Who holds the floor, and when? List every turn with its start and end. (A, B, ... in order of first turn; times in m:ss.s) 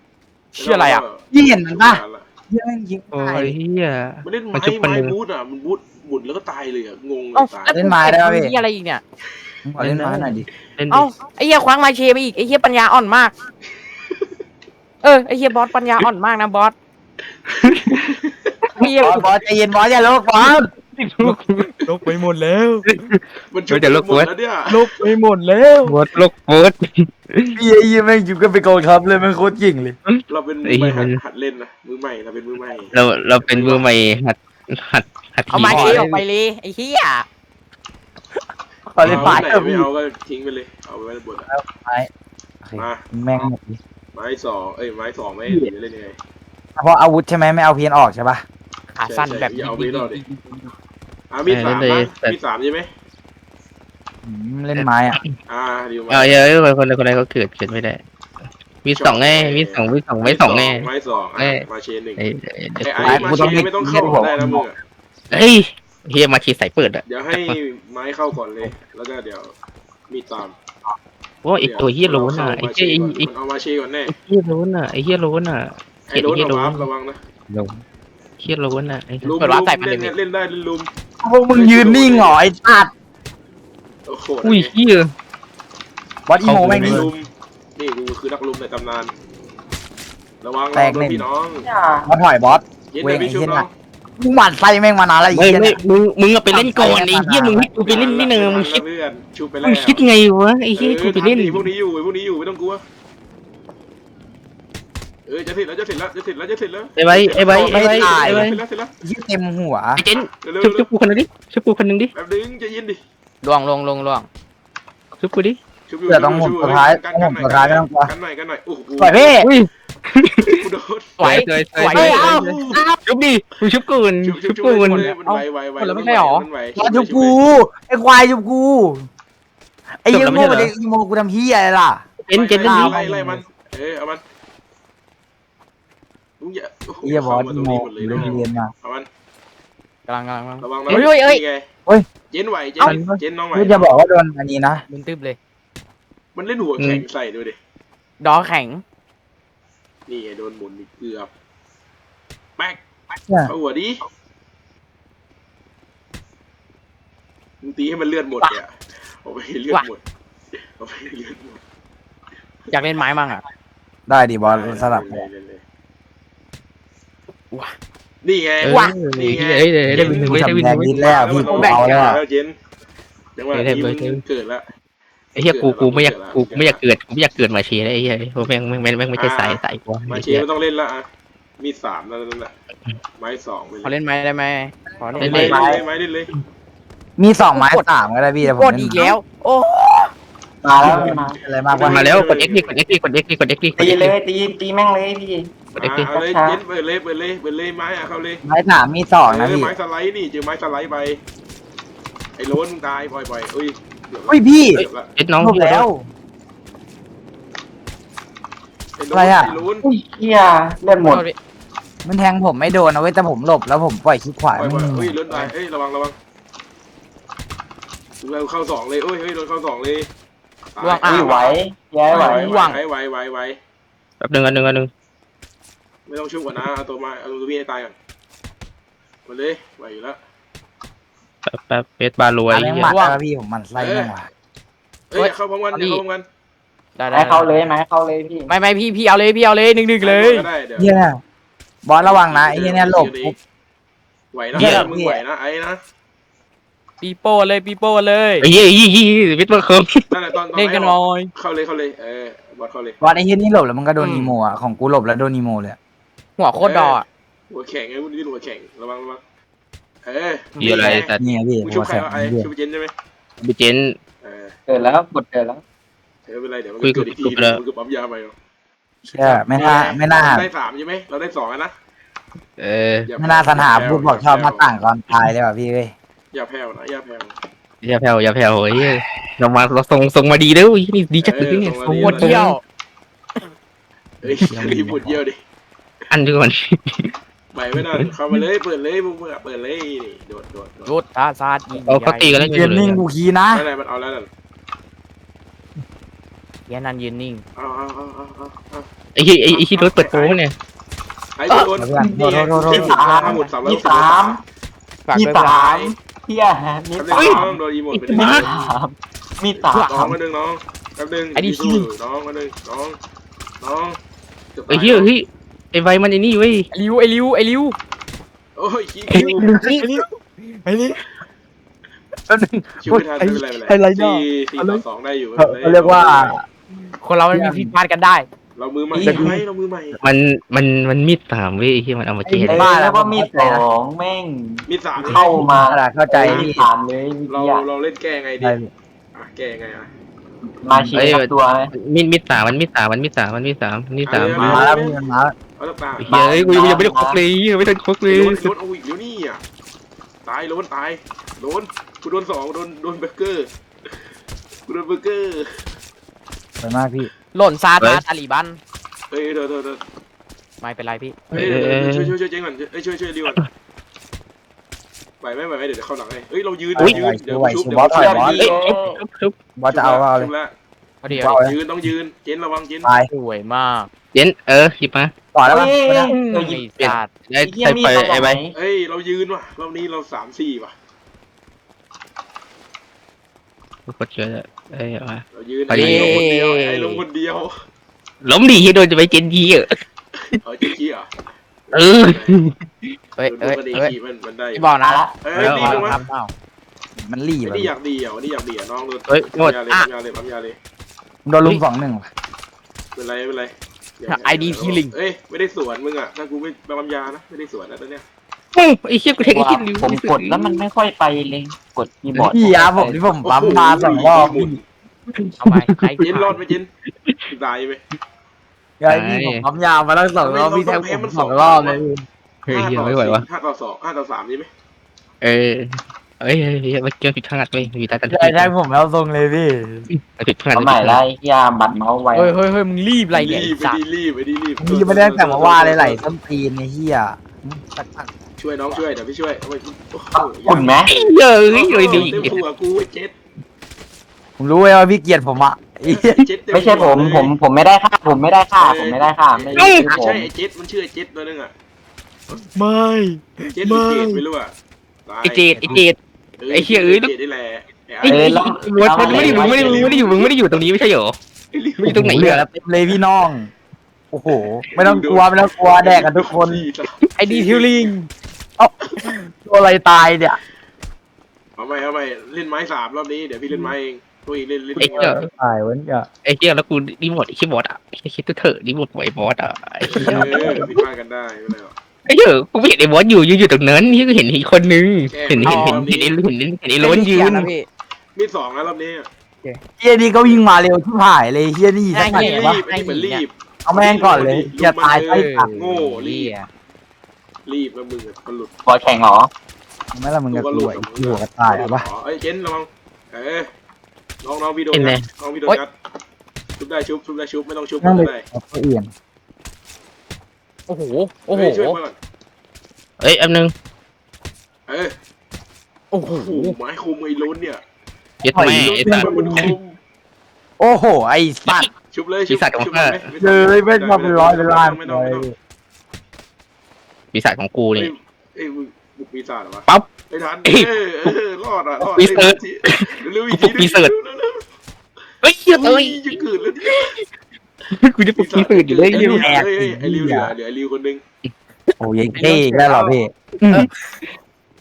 0:00.6-0:01.0 A
0:00.6-0:02.2 B
0:01.3-0:03.6 C
0:03.1-0:05.1 D
0:04.2-0:07.8 B
0:07.3-0:09.0 A
0:07.7-0:08.6 C
0:09.6-0:10.4 C
0:09.8-0:11.1 D
0:10.9-0:13.3 A
0:15.0-0:16.7 A
0:17.5-0:18.6 B
0:17.6-0:18.0 D
0:18.8-0:19.2 A
0:19.0-0:20.7 C
0:20.9-0:21.7 D
0:21.2-0:23.0 A
0:22.9-0:24.3 D
0:23.5-0:25.0 B
0:24.7-0:26.0 A
0:25.9-0:27.6 D
0:27.5-0:30.0 C
0:30.1-0:31.2 D
0:30.3-0:33.8 B
0:32.9-0:36.0 D
0:35.5-0:37.2 A
0:35.5-0:36.2 C
0:38.9-0:39.9 C
0:39.0-0:41.5 B
0:39.0-0:39.4 D
0:41.5-0:42.1 C
0:42.6-0:43.8 C
0:42.8-0:43.0 B
0:44.1-0:46.2 B
0:46.8-0:48.4 C
0:48.9-0:50.7 A
0:49.0-0:50.2 B
0:51.3-0:52.9 B
0:51.5-0:52.4 D
0:54.2-0:55.2 C
0:54.8-0:55.3 D
0:55.5-0:56.4 B
0:56.1-0:58.0 D
0:58.8-1:01.6 D
0:58.9-1:02.2 B
1:02.2-1:03.3 D
1:02.8-1:04.8 B
1:03.0-1:04.7 C
1:05.3-1:07.6 D
1:07.0-1:09.5 B
1:10.1-1:10.5 B
1:11.4-1:13.3 D
1:11.6-1:14.1 B
1:14.1-1:16.9 D
1:16.1-1:17.2 B
1:17.5-1:17.8 C
1:18.4-1:19.3 D
1:19.2-1:20.9 B
1:19.4-1:20.1 A
1:21.2-1:22.9 C
1:21.5-1:22.4 B
1:24.0-1:24.7 B
1:24.4-1:25.1 D
1:26.3-1:27.1 C
1:26.4-1:27.0 D
1:26.6-1:29.1 B
1:30.4-1:31.7 B
1:30.7-1:31.2 C
1:31.6-1:32.1 E
1:32.1-1:33.6 C
1:32.9-1:33.7 B
1:34.2-1:35.8 C
1:35.3-1:38.8 D
1:36.5-1:37.7 C
1:37.8-1:40.0 B
1:39.6-1:41.7 D
1:40.7-1:42.8 B
1:45.2-1:48.9 B
1:47.0-1:48.6 D
1:47.6-1:48.5 C
1:49.0-1:50.0 C
1:50.0-1:52.1 D
1:50.1-1:50.9 B
1:52.1-1:53.0 B
1:53.4-1:54.3 A
1:55.2-1:55.6 D
1:55.9-1:59.4 B
1:56.1-1:58.1 C
1:59.0-1:59.5 C
1:59.4-2:00.6 D
2:00.4-2:01.3 B
2:01.2-2:02.8 A
2:01.2-2:05.1 D
2:01.9-2:02.8 B
2:04.2-2:07.4 B
2:04.9-2:06.5 A
2:06.8-2:09.0 C
2:10.0-2:12.0 C
2:10.1-2:10.7 D
2:12.2-2:13.0 D
2:12.3-2:14.2 B
2:12.6-2:13.4 C
2:16.4-2:19.1 B
2:17.0-2:18.7 C
2:20.1-2:21.4 A
2:20.6-2:21.6 B
2:22.3-2:23.9 B
2:22.8-2:24.8 C
2:24.9-2:25.4 A
2:26.3-2:27.6 B
2:26.8-2:27.0 D
2:28.2-2:28.8 A
2:30.1-2:31.3 B
2:33.3-2:33.5 C
2:33.4-2:34.0 B
2:37.6-2:40.0 B
2:40.8-2:41.6 B
2:42.7-2:43.4 A
2:44.1-2:45.2 C
2:44.4-2:45.6 B
2:48.2-2:52.5 B
2:48.6-2:50.9 D
2:48.7-2:48.9 A
2:49.9-2:52.2 C
2:51.4-2:52.0 A
2:53.4-2:54.6 B
2:53.5-2:54.2 D
2:55.4-3:00.4 D
2:55.4-2:56.8 B
2:59.1-3:01.0 B
3:01.6-3:02.5 B
3:03.2-3:03.9 B
3:03.8-3:05.5 A
3:05.2-3:06.3 B
3:05.2-3:05.6 D
3:05.2-3:05.8 C
3:05.4-3:05.7 E
3:07.2-3:09.2 C
3:07.5-3:07.9 A
3:08.4-3:10.1 A
3:10.6-3:11.4 E
3:10.6-3:12.3 C
3:10.8-3:11.2 B
3:11.7-3:12.7 B
3:11.8-3:14.1 D
3:13.8-3:16.6 E
3:15.7-3:18.4 B
3:18.4-3:19.7 C
3:19.2-3:21.2 B
3:22.4-3:25.1 B
3:24.3-3:24.8 C
3:25.2-3:25.8 D
3:25.4-3:26.1 C
3:29.0-3:29.8 B
3:29.1-3:29.6 C
3:29.8-3:31.2 E
3:31.0-3:31.4 A
3:32.0-3:35.2 C
3:34.5-3:36.1 B
3:38.2-3:40.1 B
3:40.8-3:43.6 B
3:40.8-3:41.4 A
3:41.0-3:42.5 E
3:42.1-3:42.8 A
3:44.2-3:44.9 D
3:46.1-3:47.9 B
3:49.2-3:50.2 B
3:51.4-3:52.9 D
3:52.5-3:54.2 C
3:52.8-3:53.2 A
3:53.8-3:54.1 B
3:55.1-3:56.2 B
3:55.2-3:56.0 A
3:57.0-3:57.5 A
3:57.1-3:58.5 E
3:58.5-4:00.5 A
4:00.0-4:00.9 B
4:00.8-4:01.2 C
4:01.8-4:03.4 C
4:02.0-4:03.4 B
4:04.3-4:05.8 B
4:04.5-4:05.2 C
4:07.0-4:08.5 A
4:08.4-4:10.0 D
4:10.1-4:13.0 B
4:10.5-4:11.3 A
4:13.0-4:15.8 C
4:14.0-4:14.3 A
4:16.4-4:17.0 A
4:16.6-4:19.2 B
4:20.0-4:22.9 B
4:20.6-4:21.0 A
4:20.6-4:21.2 D
4:21.2-4:22.5 C
4:23.4-4:23.9 D
4:24.2-4:24.5 B
4:24.7-4:25.6 E
4:26.3-4:28.3 B
4:26.8-4:27.6 D
4:29.0-4:30.5 C
4:29.2-4:29.4 A
4:29.5-4:31.7 B
4:32.6-4:33.1 D
4:33.0-4:34.7 B
4:33.2-4:35.9 C
4:36.3-4:37.3 B
4:37.8-4:42.5 D
4:41.2-4:42.4 B
4:42.0-4:42.6 A
4:44.2-4:45.4 B
4:44.4-4:45.2 D
4:46.1-4:47.1 D
4:47.5-4:50.9 B
4:47.8-4:48.1 D
4:50.8-4:52.3 A
4:51.8-4:53.0 D
4:52.4-4:53.6 C
4:53.5-4:54.3 B
4:56.7-4:57.4 A
4:57.6-4:58.8 B
4:59.2-5:00.5 D
4:59.5-5:00.4 B
5:01.4-5:04.4 B
5:01.8-5:03.0 C
5:02.0-5:04.4 E
5:03.0-5:03.5 A
5:05.1-5:05.6 A
5:05.1-5:07.6 E
5:05.5-5:05.9 B
5:07.0-5:08.7 B
5:07.1-5:08.4 D
5:08.1-5:10.2 E
5:09.6-5:13.0 B
5:09.7-5:10.0 A
5:11.4-5:11.9 A
5:13.6-5:14.0 B
5:14.5-5:15.1 B
5:14.7-5:16.7 D
5:16.7-5:17.8 A
5:18.6-5:19.5 B
5:19.2-5:19.8 D
5:19.4-5:19.9 C
5:19.8-5:21.0 A
5:22.3-5:23.0 C
5:22.8-5:26.4 B
5:23.2-5:24.8 A
5:25.4-5:26.4 C
5:27.0-5:28.2 A
5:27.3-5:27.7 C
5:28.6-5:30.0 B
5:29.0-5:29.3 A
5:30.0-5:32.6 D
5:32.2-5:33.6 C
5:32.4-5:37.6 E
5:34.7-5:35.5 B
5:35.0-5:36.6 C
5:36.2-5:36.5 B
5:37.3-5:38.6 B
5:38.4-5:38.7 C
5:39.1-5:39.9 B
5:40.6-5:41.7 E
5:40.7-5:41.0 C
5:40.9-5:44.7 D
5:44.0-5:45.0 B
5:44.3-5:45.3 C
5:45.6-5:46.1 B
5:46.0-5:48.5 D
5:46.1-5:47.2 E
5:48.1-5:49.4 B
5:50.2-5:53.5 B
5:54.7-5:55.6 B
5:56.6-5:57.1 C
5:57.3-5:58.6 A
5:59.1-5:59.8 B
6:00.6-6:01.2 A
6:01.3-6:02.1 D
6:01.3-6:03.4 B
6:05.2-6:08.7 B
6:06.8-6:08.4 C
6:07.8-6:09.0 E
6:08.4-6:09.3 D
6:09.6-6:10.3 C
6:09.7-6:10.5 B
6:11.0-6:11.4 A
6:11.1-6:11.5 C
6:11.3-6:12.9 B
6:13.1-6:13.9 A
6:14.1-6:15.1 D
6:15.3-6:16.1 C
6:15.4-6:16.6 E
6:16.1-6:17.1 A
6:16.8-6:18.4 D
6:17.4-6:18.5 E
6:18.5-6:20.7 B
6:23.9-6:26.2 D
6:25.3-6:27.5 B
6:25.7-6:27.0 A
6:28.2-6:29.8 D
6:30.4-6:31.1 B
6:31.7-6:32.4 B
6:31.7-6:32.6 D
6:33.2-6:33.9 A
6:33.2-6:36.0 B
6:34.5-6:36.3 A
6:34.8-6:35.2 E
6:35.3-6:36.0 D
6:37.0-6:37.7 C
6:37.4-6:40.6 B
6:39.1-6:39.6 D
6:41.2-6:42.1 C
6:42.9-6:48.0 B
6:44.1-6:45.0 A
6:48.5-6:50.6 D
6:49.2-6:53.1 E
6:52.3-6:54.6 C
6:53.2-6:54.6 B
6:55.2-6:55.6 D
6:55.4-6:56.4 A
6:56.0-6:56.7 B
6:57.3-6:57.8 B
6:58.8-7:02.0 C
6:58.9-6:59.4 D
7:00.2-7:01.8 B
7:02.5-7:04.5 B
7:02.5-7:03.2 D
7:05.2-7:08.5 D
7:08.1-7:09.9 C
7:09.9-7:11.0 D
7:10.5-7:12.3 E
7:12.1-7:13.8 A
7:13.1-7:16.0 B
7:14.6-7:18.1 C
7:18.4-7:20.9 B
7:20.2-7:20.9 E
7:20.9-7:22.4 D
7:21.5-7:23.1 B
7:24.4-7:26.3 C
7:25.8-7:27.3 B
7:26.5-7:30.3 E
7:28.6-7:31.5 B
7:29.6-7:29.8 D
7:32.3-7:34.2 A
7:33.6-7:34.5 B
7:35.0-7:35.7 B
7:35.2-7:36.0 D
7:36.4-7:40.4 B
7:36.5-7:37.1 D
7:38.0-7:41.1 D
7:38.0-7:39.9 E
7:41.5-7:42.0 B
7:41.8-7:42.4 D
7:41.8-7:43.5 C
7:44.1-7:46.6 C
7:44.7-7:47.9 B
7:47.2-7:48.1 A
7:48.6-7:50.4 C
7:51.6-7:55.2 B
7:54.8-7:56.1 C
7:54.8-7:55.3 D
7:56.2-8:00.7 D
7:59.9-8:01.7 B
8:00.0-8:00.6 C
8:02.1-8:07.5 D
8:05.1-8:06.2 B
8:05.4-8:05.8 A
8:06.8-8:07.7 A
8:08.2-8:09.1 B
8:09.8-8:12.6 C
8:11.9-8:13.2 A
8:12.0-8:16.3 B
8:13.6-8:15.3 C
8:15.0-8:16.5 A
8:17.4-8:18.5 B
8:18.6-8:19.3 E
8:19.9-8:21.8 C
8:20.3-8:23.5 B
8:24.2-8:25.7 B
8:24.7-8:25.6 D
8:26.6-8:28.2 B
8:27.8-8:28.9 C
8:30.7-8:31.8 A
8:31.3-8:32.0 B
8:33.0-8:33.5 D
8:34.7-8:34.9 B
8:35.9-8:36.6 A
8:36.1-8:37.6 B
8:38.2-8:39.5 C
8:38.2-8:39.5 D
8:38.4-8:39.8 B
8:40.6-8:41.7 C
8:41.9-8:45.3 B
8:42.3-8:43.0 D
8:43.2-8:45.3 C
8:47.1-8:47.9 D
8:47.7-8:54.4 B
8:51.8-8:53.9 D
8:55.2-8:57.0 D
8:55.5-8:56.9 B
8:57.7-8:59.3 D
8:58.2-9:01.0 B
8:58.9-9:00.3 C
9:01.8-9:03.7 C
9:02.2-9:03.0 A